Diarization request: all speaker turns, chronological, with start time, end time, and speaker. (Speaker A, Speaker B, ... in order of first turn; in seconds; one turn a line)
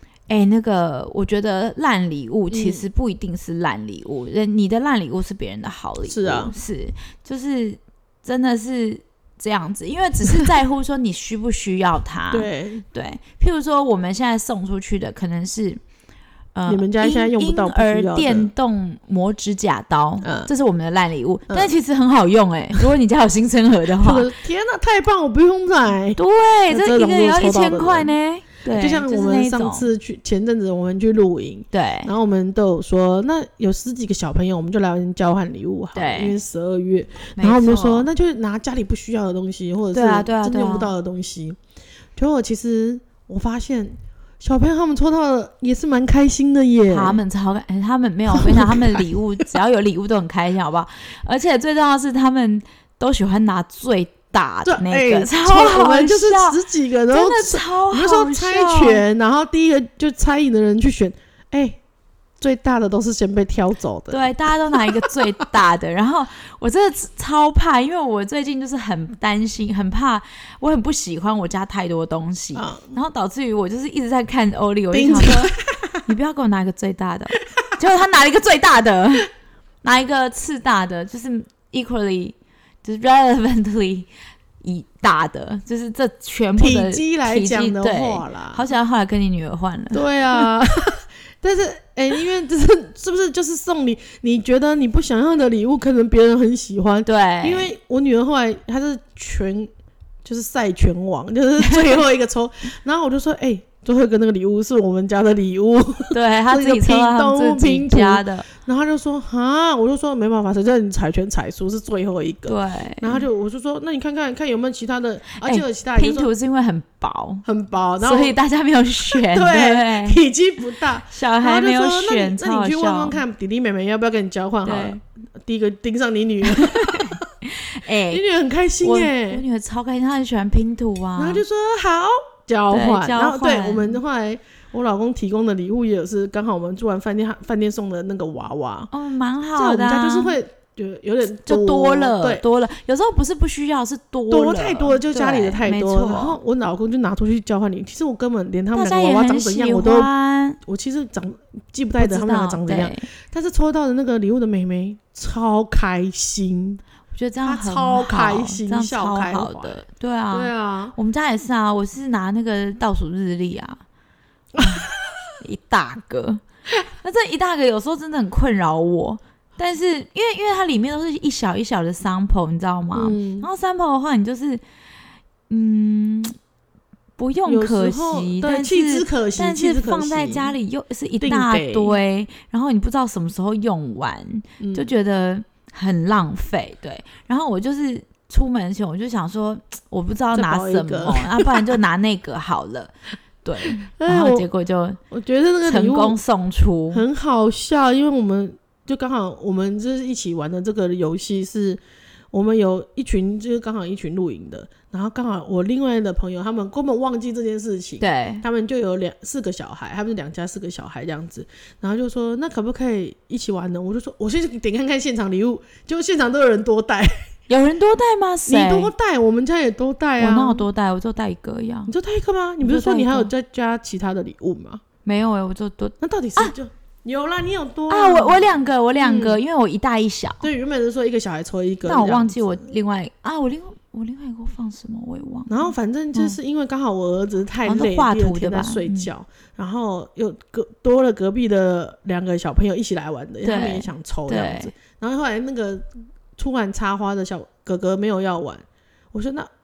Speaker A: 0.3-15.8
Speaker B: 2.5-2.9
Speaker B: 6.1-6.5
Speaker B: 12.3-12.8
Speaker A: 16.6-24.3
Speaker B: 16.7-18.5
Speaker B: 20.2-20.5
Speaker B: 24.0-28.1
Speaker A: 26.2-29.9
Speaker B: 28.7-41.6
Speaker A: 31.7-32.1
Speaker A: 36.0-36.4
Speaker A: 37.4-38.1
Speaker A: 39.9-40.9
Speaker B: 42.2-47.2
Speaker A: 46.9-56.6
Speaker B: 48.3-49.1
Speaker B: 54.6-61.8
Speaker A: 57.1-59.0
Speaker B: 62.4-65.1
Speaker A: 64.1-75.5
Speaker B: 72.5-73.0
Speaker B: 74.9-76.0
Speaker A: 76.1-79.3
Speaker A: 79.8-90.5
Speaker B: 86.6-88.6
Speaker B: 89.9-99.7
Speaker A: 97.1-97.7
Speaker B: 100.2-116.3
Speaker A: 101.6-102.0
Speaker A: 106.1-108.5
Speaker A: 112.5-113.2
Speaker A: 115.4-117.5
Speaker B: 117.5-118.4
Speaker A: 118.0-120.2
Speaker B: 119.1-127.2
Speaker A: 121.1-123.2
Speaker A: 124.7-125.0
Speaker A: 126.5-128.2
Speaker B: 128.1-129.4
Speaker A: 128.8-131.4
Speaker B: 131.2-138.9
Speaker A: 132.7-134.0
Speaker A: 138.9-140.4
Speaker B: 139.6-142.4
Speaker A: 141.4-146.4
Speaker B: 144.3-150.1
Speaker A: 148.7-150.6
Speaker B: 150.7-156.8
Speaker A: 152.0-153.1
Speaker A: 157.1-163.8
Speaker B: 157.4-160.9
Speaker B: 164.6-164.9
Speaker A: 164.6-164.9
Speaker A: 165.4-166.4
Speaker A: 167.0-174.6
Speaker B: 172.9-173.5
Speaker A: 175.5-176.3
Speaker A: 177.2-195.0
Speaker B: 177.5-180.5
Speaker B: 181.2-182.0
Speaker B: 184.6-184.9
Speaker B: 190.3-191.7
Speaker B: 193.7-194.5
Speaker B: 195.1-196.2
Speaker A: 195.7-197.1
Speaker B: 196.9-201.8
Speaker B: 202.3-217.3
Speaker A: 208.0-208.4
Speaker A: 217.5-218.9
Speaker B: 218.5-220.7
Speaker A: 220.2-221.9
Speaker B: 221.9-224.8
Speaker A: 222.6-223.3
Speaker A: 225.1-226.5
Speaker B: 226.0-229.4
Speaker A: 227.9-230.5
Speaker B: 230.4-232.6
Speaker A: 231.9-236.4
Speaker B: 235.5-245.8
Speaker A: 237.7-239.1
Speaker A: 243.4-244.7
Speaker B: 246.4-249.5